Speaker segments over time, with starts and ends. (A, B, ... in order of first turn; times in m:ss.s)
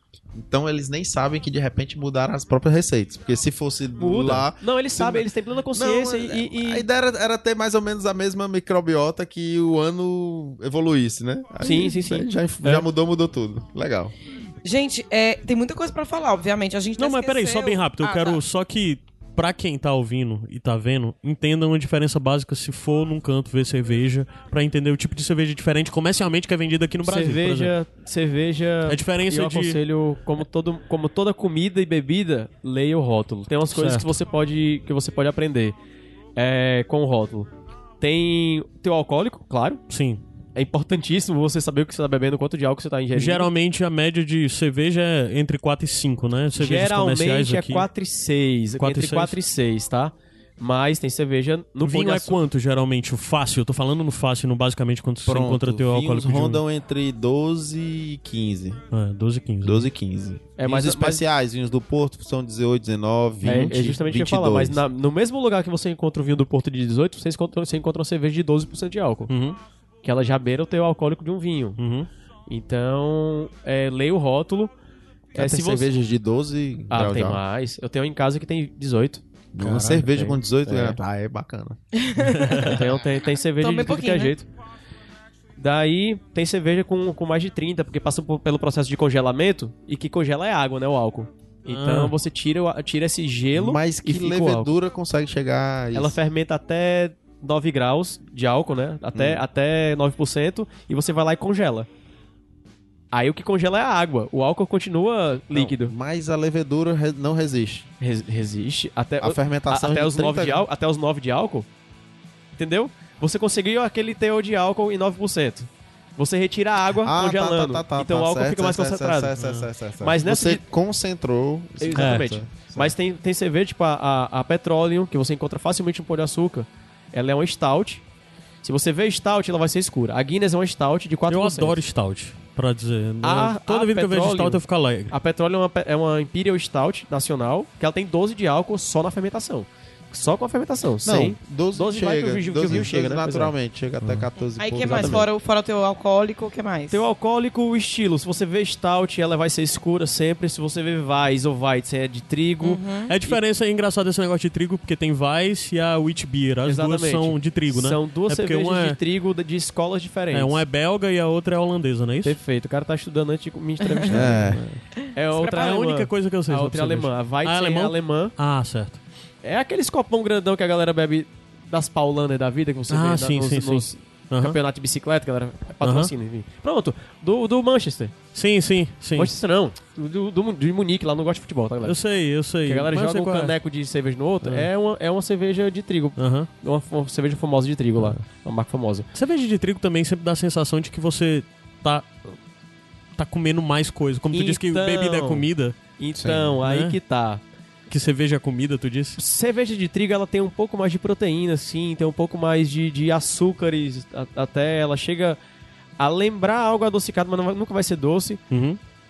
0:00.3-0:14.1 A
0:04.0-0:06.8 B
0:11.6-0:12.8 B
0:14.6-0:18.4 C
0:17.0-0:27.7 D
0:27.0-0:35.8 B
0:28.8-0:29.8 D
0:33.7-0:34.1 D
0:36.4-0:37.5 B
0:38.0-0:39.8 B
0:39.9-0:40.2 D
0:40.5-0:43.5 B
0:43.1-0:47.9 D
0:46.5-0:52.4 B
0:48.8-0:49.4 D
0:51.8-0:56.6 D
0:55.2-0:58.8 A
0:58.9-0:59.9 D
0:59.6-1:04.8 A
1:00.6-1:01.2 B
1:03.4-1:09.3 B
1:09.3-1:09.6 D
1:10.0-1:11.8 B
1:11.8-1:12.1 D
1:12.5-1:14.7 B
1:15.3-1:17.4 A
1:15.3-1:15.9 B
1:16.9-1:21.0 B
1:19.5-1:21.8 A
1:19.6-1:20.0 D
1:22.0-1:22.7 C
1:22.2-1:22.8 D
1:22.6-1:24.5 B
1:23.6-1:24.3 C
1:25.6-1:34.7 B
1:31.7-1:32.1 D
1:33.5-1:36.2 A
1:35.9-1:41.9 B
1:39.1-1:39.4 A
1:43.1-1:45.9 B
1:45.5-1:47.9 A
1:48.0-1:51.7 B
1:49.2-1:50.6 A
1:52.6-1:59.4 B
1:57.0-2:02.9 A
1:59.4-1:59.7 D
2:00.0-2:00.6 B
2:01.8-2:08.0 B
2:02.0-2:02.3 D
2:08.6-2:11.8 B
2:11.3-2:15.2 D
2:13.2-2:23.5 B
2:21.0-2:25.3 A
2:24.0-2:24.3 D
2:24.6-2:27.0 C
2:24.8-2:25.2 B
2:26.9-2:33.4 B
2:32.6-2:33.1 C
2:33.1-2:39.0 D
2:36.6-2:40.6 B
2:40.3-2:42.4 D
2:42.2-2:44.6 B
2:44.1-2:44.6 A
2:44.3-2:44.8 D
2:45.1-2:48.3 B
2:45.3-2:49.0 D
2:49.4-2:58.1 B
2:52.9-2:54.6 D
2:55.8-2:56.1 D
2:58.3-2:59.3 D
2:59.1-3:02.0 B
3:01.8-3:03.6 D
3:02.6-3:09.1 B
3:04.4-3:04.7 D
3:06.2-3:06.5 D
3:09.1-3:12.3 D
3:13.2-3:15.8 D
3:14.3-3:17.4 B
3:16.2-3:16.5 A
3:16.6-3:17.0 D
3:17.9-3:19.2 D
3:19.2-3:25.4 B
3:26.0-3:28.4 B
3:28.5-3:28.8 D